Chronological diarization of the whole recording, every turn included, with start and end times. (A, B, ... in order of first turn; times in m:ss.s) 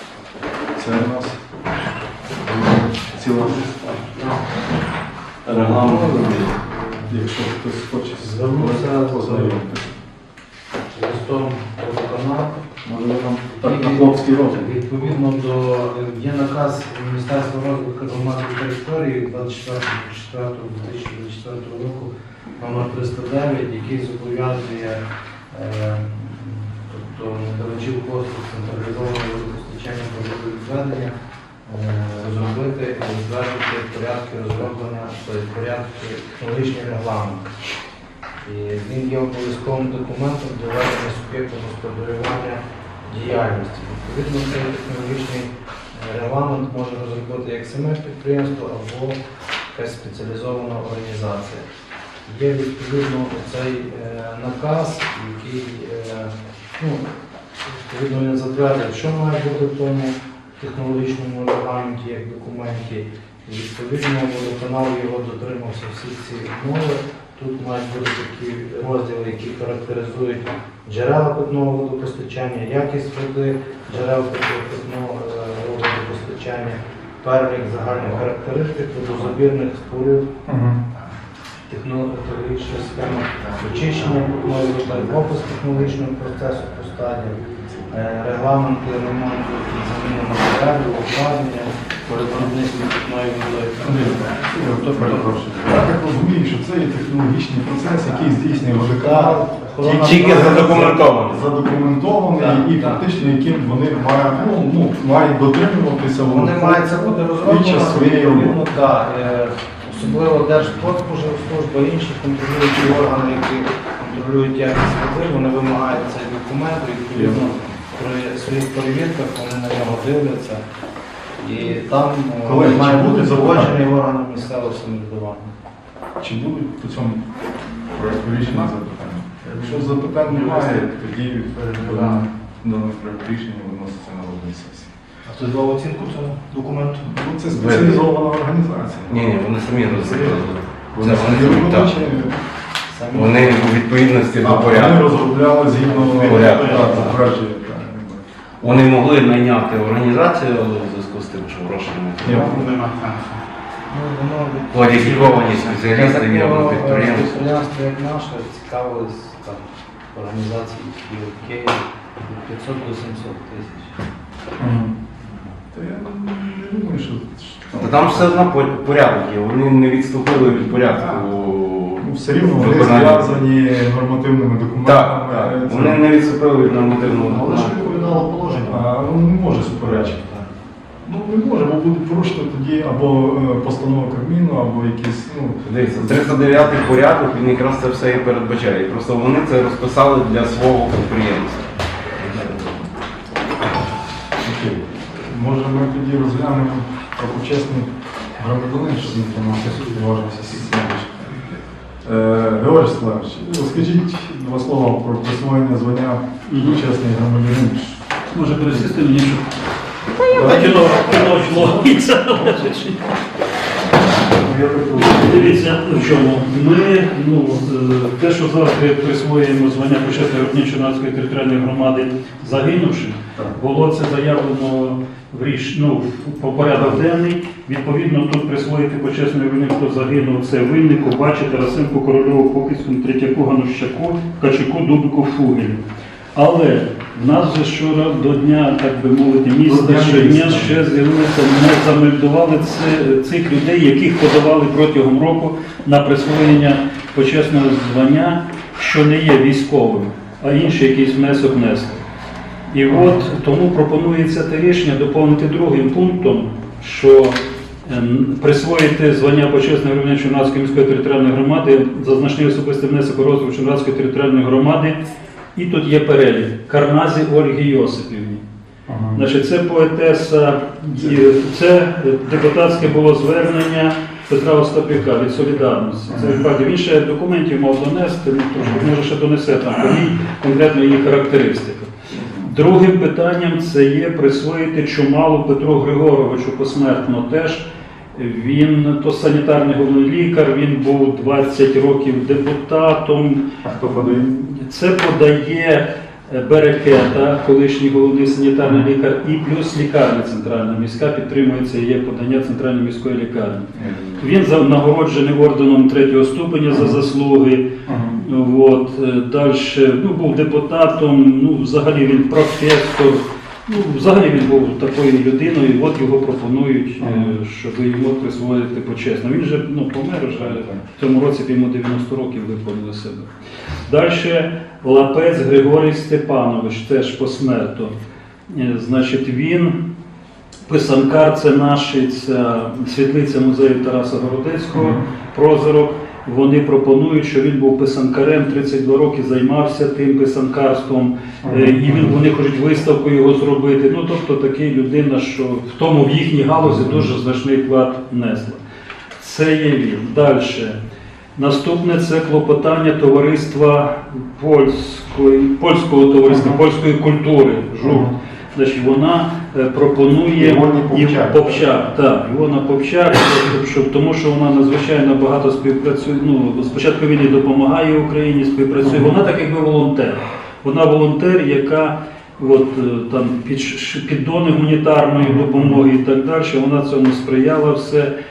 0:00.8-0:01.4 A
0:02.4-0:03.9 A
0:03.6-0:04.4 B
0:05.4-0:06.6 C
0:05.7-0:07.2 B
0:07.1-0:10.0 A
0:08.2-0:09.6 B
0:10.9-0:12.6 B
0:12.8-0:14.8 A
0:13.5-0:31.2 B
0:31.7-0:37.5 B
0:38.4-0:49.2 B
0:49.7-0:51.7 B
0:52.2-0:57.1 B
0:57.6-1:20.3 B
1:20.5-1:20.8 A
1:21.7-1:35.4 B
1:23.8-1:24.1 A
1:33.8-1:48.6 A
1:38.8-1:41.1 B
1:40.0-1:41.5 C
1:42.3-1:43.1 B
1:46.3-2:00.6 B
1:57.1-1:57.7 A
2:01.4-2:05.5 B
2:02.4-2:03.8 A
2:06.2-2:07.3 A
2:07.9-2:14.9 A
2:08.4-2:08.7 B
2:09.4-2:10.9 B
2:11.5-2:12.3 B
2:15.3-2:17.1 B
2:17.0-2:19.2 A
2:17.5-2:18.1 C
2:19.1-2:22.1 C
2:19.9-2:20.4 B
2:20.9-2:22.4 A
2:22.9-2:27.1 B
2:23.1-2:25.2 C
2:24.4-2:28.2 A
2:26.2-2:27.2 C
2:28.6-2:32.7 C
2:32.2-2:32.6 A
2:32.2-2:33.4 B
2:33.9-2:44.0 B
2:34.7-2:37.6 C
2:44.6-2:45.0 A
2:45.7-2:48.5 A
2:47.8-2:53.4 C
2:52.0-2:56.1 A
2:54.8-2:58.6 C
2:56.6-2:58.8 B
2:58.6-3:00.2 A
2:59.7-3:00.5 B
3:01.0-3:07.0 A
3:05.6-3:11.7 C
3:14.4-3:21.3 A
3:22.0-3:28.0 A
3:26.5-3:26.8 D
3:28.3-3:29.5 D
3:30.2-3:33.0 D
3:30.3-3:32.7 A
3:34.2-3:36.2 A
3:34.9-3:55.8 D
3:56.4-4:12.0 D
3:59.6-4:00.8 A
4:12.7-4:25.0 D
4:12.9-4:13.2 A
4:25.6-4:28.4 D
4:28.9-4:29.3 A
4:29.2-4:41.9 D
4:36.1-4:36.4 A
4:38.6-4:38.9 A
4:42.2-4:42.5 A
4:42.4-4:53.4 D
4:53.6-4:54.3 A
4:54.1-5:03.6 D
4:58.6-4:58.9 A
5:03.7-5:04.3 A
5:04.2-5:23.3 D
5:06.7-5:07.0 A
5:07.9-5:08.2 A
5:17.0-5:17.3 A
5:20.3-5:20.8 A
5:23.8-5:27.9 D
5:28.5-5:29.8 D
5:30.7-5:48.6 D
5:34.7-5:35.0 A
5:41.4-5:42.2 A
5:46.6-5:47.1 A
5:49.2-5:50.8 D
5:51.4-6:18.1 D
5:56.3-5:56.6 A
5:57.8-5:58.1 A
6:00.4-6:01.9 A
6:08.8-6:09.1 A
6:15.2-6:15.8 A